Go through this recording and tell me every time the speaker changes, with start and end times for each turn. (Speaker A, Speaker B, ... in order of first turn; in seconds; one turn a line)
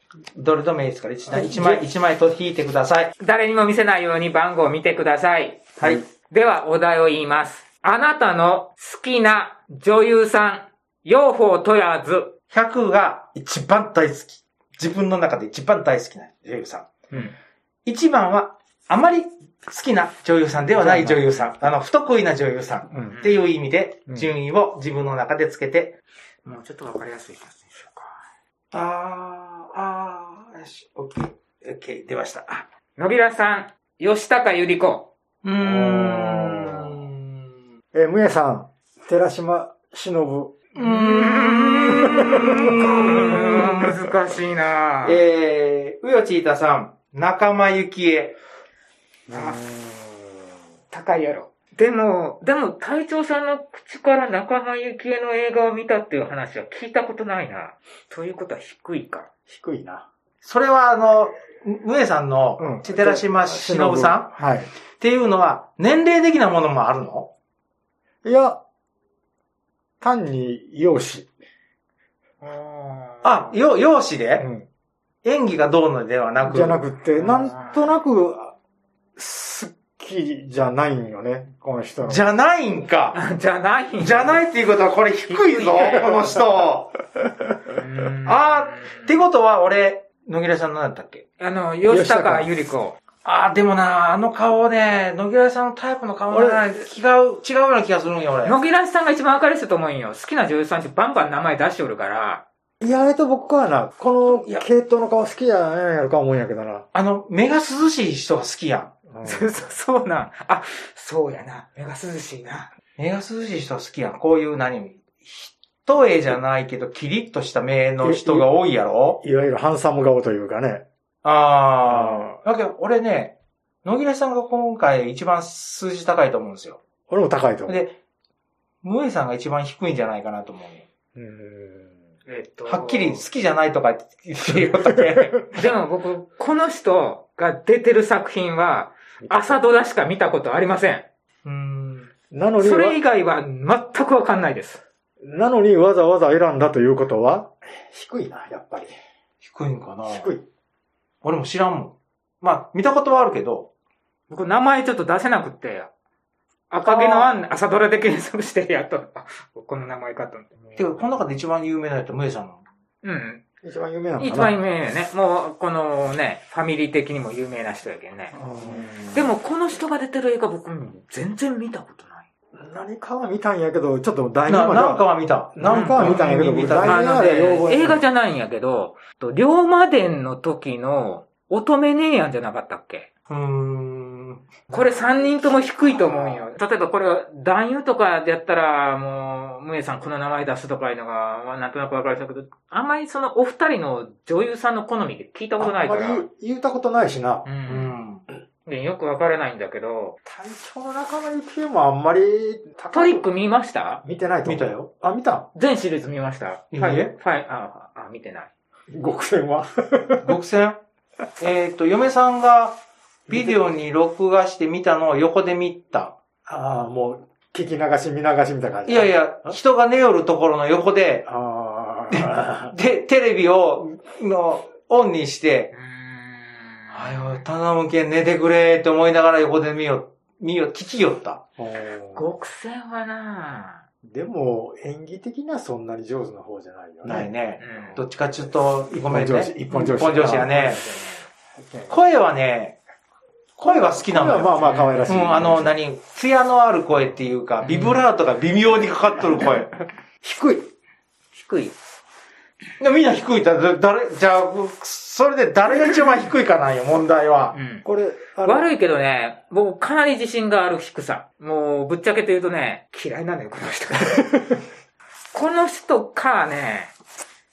Speaker A: 0.3-3.1
Speaker B: 1.3-1.8
Speaker C: 3.2-5.8
Speaker C: 6.3-12.3
Speaker A: 12.5-16.9
Speaker A: 17.9-26.0
Speaker B: 20.8-21.2
Speaker B: 22.9-23.2
Speaker C: 26.4-28.2
Speaker A: 28.7-32.6
Speaker C: 33.0-35.1
Speaker A: 35.4-37.2
Speaker B: 35.6-37.1
Speaker B: 37.9-40.6
Speaker C: 40.8-45.2
Speaker A: 40.8-44.0
Speaker B: 42.1-43.1
Speaker A: 45.0-48.4
Speaker B: 49.3-50.5
Speaker C: 49.3-49.6
Speaker C: 50.9-59.3
Speaker B: 59.5-60.1
Speaker A: 60.4-64.4
Speaker B: 62.6-64.7
Speaker A: 65.0-67.3
Speaker B: 68.2-68.6
Speaker B: 70.0-71.3
Speaker C: 72.4-73.5
Speaker A: 73.2-74.5
Speaker B: 74.4-74.7
Speaker A: 75.2-76.8
Speaker B: 76.4-78.5
Speaker C: 77.2-77.9
Speaker B: 79.2-82.2
Speaker A: 82.0-83.2
Speaker C: 83.1-84.4
Speaker A: 84.0-86.9
Speaker C: 85.3-86.1
Speaker C: 87.8-89.0
Speaker A: 88.2-91.2
Speaker C: 91.4-93.0
Speaker B: 91.9-92.5
Speaker A: 93.2-98.6
Speaker B: 96.3-96.7
Speaker C: 98.4-102.4
Speaker B: 102.8-106.8
Speaker A: 104.3-104.7
Speaker A: 106.9-108.9
Speaker B: 109.1-109.5
Speaker C: 109.2-112.7
Speaker A: 113.0-119.2
Speaker B: 118.0-118.5
Speaker B: 119.2-120.8
Speaker A: 121.2-126.8
Speaker B: 121.9-122.4
Speaker B: 127.1-127.8
Speaker A: 127.7-127.9
Speaker A: 128.8-130.9
Speaker B: 131.2-131.9
Speaker C: 132.3-133.2
Speaker A: 132.7-135.5
Speaker B: 134.5-135.4
Speaker C: 135.5-141.1
Speaker B: 139.2-139.6
Speaker A: 141.4-142.1
Speaker B: 142.3-143.0
Speaker C: 142.6-144.8
Speaker B: 145.2-148.9
Speaker A: 149.4-150.3
Speaker B: 150.1-150.5
Speaker A: 151.2-153.7
Speaker C: 154.3-155.9
Speaker C: 156.7-160.8
Speaker A: 156.8-157.3
Speaker A: 160.8-162.6
Speaker C: 163.0-163.4
Speaker B: 163.6-164.6
Speaker C: 164.2-168.4
Speaker B: 168.3-169.3
Speaker C: 169.1-172.2
Speaker B: 172.6-178.0
Speaker A: 174.5-177.6
Speaker C: 175.6-176.2
Speaker C: 176.8-183.1
Speaker A: 183.3-184.5
Speaker C: 184.7-196.3
Speaker B: 195.6-197.5
Speaker C: 197.5-197.9
Speaker A: 197.7-198.2
Speaker C: 198.7-200.2
Speaker B: 200.2-203.3
Speaker C: 202.9-204.0
Speaker B: 204.0-205.5
Speaker A: 204.4-204.9
Speaker C: 205.6-208.5
Speaker A: 206.7-207.1
Speaker B: 208.9-210.3
Speaker A: 210.2-210.8
Speaker A: 211.4-212.8
Speaker B: 213.3-213.6
Speaker A: 213.3-216.2
Speaker B: 216.5-219.6
Speaker A: 218.9-221.3
Speaker B: 221.3-222.7
Speaker A: 222.1-225.7
Speaker C: 225.7-227.4
Speaker A: 226.9-231.4
Speaker B: 231.6-232.3
Speaker C: 232.2-233.8
Speaker B: 234.0-238.0
Speaker A: 237.1-240.8
Speaker C: 237.6-238.0
Speaker B: 239.0-240.8
Speaker C: 240.2-241.2
Speaker B: 241.6-241.9
Speaker A: 241.9-242.8
Speaker A: 243.6-249.7
Speaker B: 243.6-245.7
Speaker C: 244.6-245.2
Speaker C: 247.6-248.0
Speaker B: 250.2-250.7
Speaker C: 251.3-251.8
Speaker A: 252.8-257.6
Speaker C: 257.5-257.8
Speaker B: 257.8-258.7
Speaker C: 258.4-264.5
Speaker C: 265.3-266.9